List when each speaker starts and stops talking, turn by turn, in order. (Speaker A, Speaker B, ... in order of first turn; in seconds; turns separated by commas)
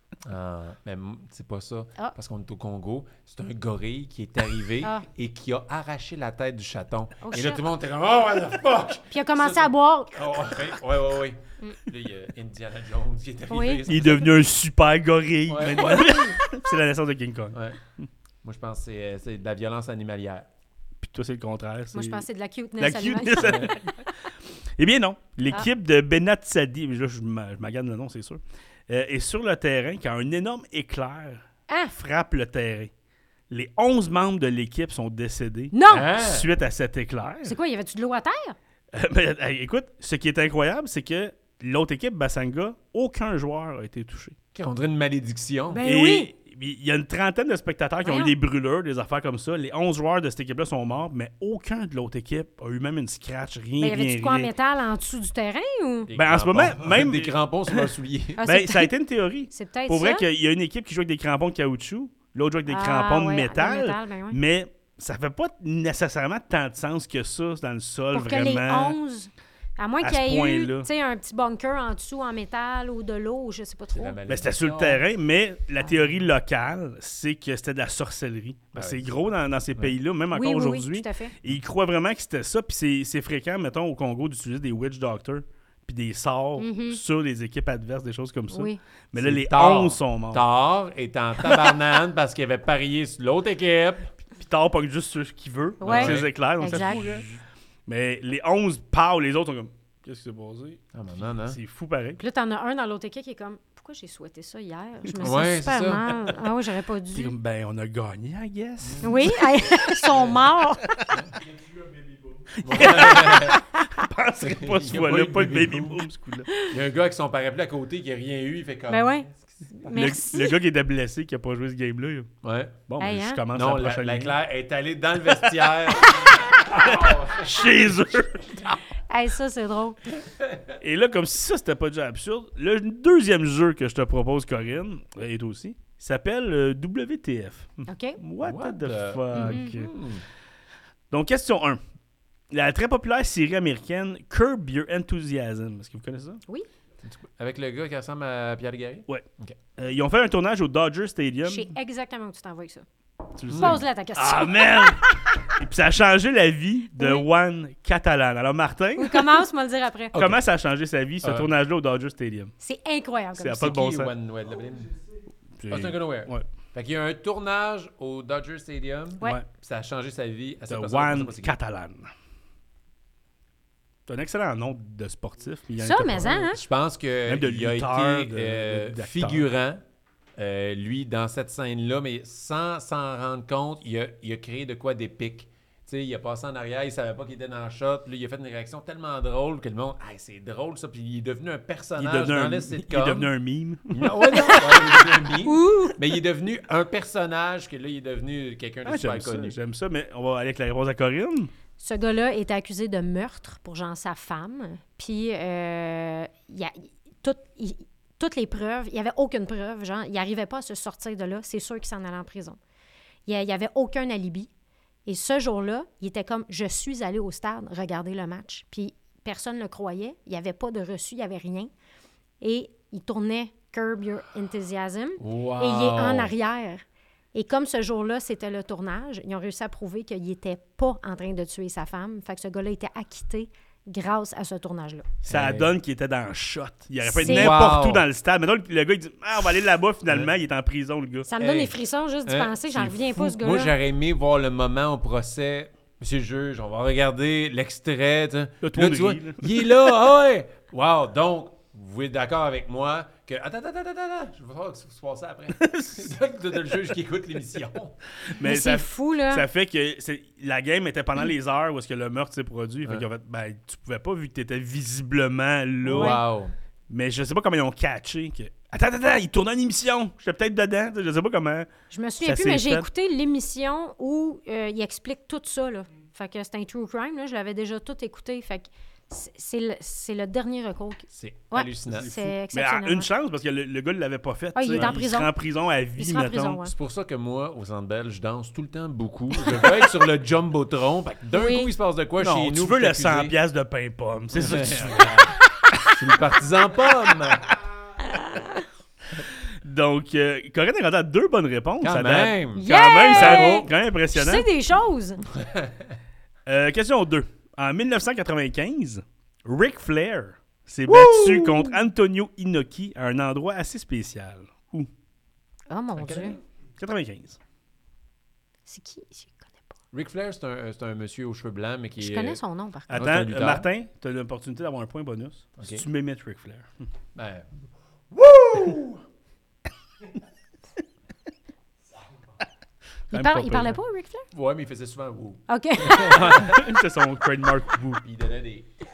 Speaker A: 0.2-14.3, Speaker B: 7.2-7.7, Speaker B: 9.1-10.2, Speaker B: 13.5-13.8, Speaker C: 13.9-17.6, Speaker A: 15.5-16.4, Speaker A: 17.5-17.8, Speaker A: 18.4-20.5, Speaker C: 21.0-22.2, Speaker B: 21.9-23.9, Speaker C: 22.8-23.9, Speaker A: 23.4-23.8, Speaker C: 24.8-32.9, Speaker B: 31.7-31.9, Speaker C: 33.5-37.5, Speaker B: 35.7-36.1, Speaker A: 35.9-36.5, Speaker B: 37.4-38.5, Speaker C: 38.9-44.3, Speaker A: 44.5-45.8, Speaker B: 45.7-46.3, Speaker C: 45.8-54.5, Speaker B: 48.0-48.3, Speaker B: 53.8-56.1, Speaker A: 56.1-58.4, Speaker C: 56.1-57.9, Speaker B: 58.4-58.9, Speaker C: 58.4-69.0, Speaker B: 59.5-60.2, Speaker B: 62.7-64.4, Speaker B: 68.1-74.2, Speaker C: 70.0-70.9, Speaker A: 73.9-75.0, Speaker C: 74.3-90.4, Speaker B: 75.8-76.1, Speaker A: 78.7-79.1, Speaker B: 80.3-81.3, Speaker B: 86.6-87.0, Speaker B: 88.5-88.8, Speaker A: 89.1-94.1, Speaker C: 91.4-91.7, Speaker C: 94.4-97.3, Speaker B: 95.8-97.2, Speaker A: 95.8-97.0, Speaker C: 97.9-100.8, Speaker A: 100.9-101.6, Speaker C: 101.4-102.2, Speaker B: 102.2-107.3, Speaker A: 105.2-106.3, Speaker C: 107.1-110.2, Speaker A: 108.8-109.3, Speaker B: 109.0-110.9, Speaker C: 110.8-111.1, Speaker C: 112.5-116.5, Speaker A: 112.6-113.6, Speaker A: 114.4-116.0, Speaker A: 116.6-119.3, Speaker B: 118.9-120.6, Speaker C: 119.9-122.3, Speaker A: 122.4-122.8, Speaker C: 122.9-124.4, Speaker B: 123.0-123.4, Speaker A: 123.5-127.9, Speaker C: 126.1-128.8, Speaker B: 129.1-130.0, Speaker A: 130.2-130.8, Speaker C: 130.8-139.9, Speaker B: 137.9-138.2, Speaker A: 138.4-140.2, Speaker B: 139.3-139.8, Speaker C: 141.1-141.8, Speaker C: 142.5-146.4, Speaker A: 147.0-149.6, Speaker C: 149.8-151.7, Speaker B: 151.4-152.8, Speaker C: 153.4-159.4, Speaker A: 153.5-153.8, Speaker B: 153.5-155.2, Speaker B: 156.9-157.2, Speaker B: 159.0-160.1, Speaker A: 160.1-160.4, Speaker C: 160.1-162.5, Speaker A: 161.2-161.5, Speaker B: 162.6-163.8, Speaker C: 163.4-164.1, Speaker A: 163.6-164.9, Speaker C: 165.6-166.4, Speaker A: 165.7-171.5, Speaker C: 170.7-172.1, Speaker C: 174.1-176.5, Speaker B: 175.8-176.6, Speaker A: 176.5-179.8, Speaker C: 177.2-179.5, Speaker A: 180.4-193.3, Speaker C: 192.0-194.7, Speaker A: 193.9-199.6, Speaker B: 194.4-196.0, Speaker C: 198.9-201.5, Speaker B: 201.8-212.6, Speaker B: 213.2-214.5, Speaker B: 215.1-221.7, Speaker B: 222.4-226.8, Speaker A: 225.2-226.3, Speaker B: 227.3-235.1, Speaker C: 235.2-241.3, Speaker A: 235.3-235.7, Speaker B: 237.1-237.6, Speaker A: 237.2-238.0, Speaker B: 241.2-243.7, Speaker A: 241.4-241.7, Speaker A: 242.2-258.0, Speaker C: 248.6-249.9, Speaker C: 255.5-256.1, Speaker C: 258.3-266.2, Speaker B: 258.4-259.4, Speaker A: 265.8-266.5, Speaker B: 265.9-266.2, Speaker C: 266.9-271.7, Speaker B: 271.9-283.1, Speaker C: 272.2-272.9, Speaker A: 281.1-282.3, Speaker C: 282.5-286.6, Speaker B: 284.5-285.3, Speaker A: 284.7-285.0, Speaker B: 286.0-286.7, Speaker A: 286.6-293.3, Speaker B: 291.3-291.7, Speaker C: 292.2-295.2, Speaker A: 294.3-295.4, Speaker A: 295.9-297.5, Speaker B: 298.0-298.6, Speaker C: 299.6-304.5, Speaker A: 301.8-303.7, Speaker B: 302.6-305.2, Speaker A: 305.3-305.9, Speaker C: 306.4-314.9, Speaker A: 310.9-311.7, Speaker B: 315.7-316.4, Speaker A: 315.9-316.4, Speaker C: 316.8-317.4, Speaker B: 318.7-319.7, Speaker A: 319.9-322.4, Speaker B: 322.0-323.0, Speaker C: 322.9-326.7, Speaker A: 322.9-323.6, Speaker A: 325.6-325.8, Speaker A: 327.1-327.5, Speaker A: 328.1-329.0, Speaker C: 333.1-333.8, Speaker B: 333.1-334.2, Speaker A: 334.3-336.6, Speaker B: 335.5-336.5, Speaker C: 336.1-338.0, Speaker A: 337.9-338.7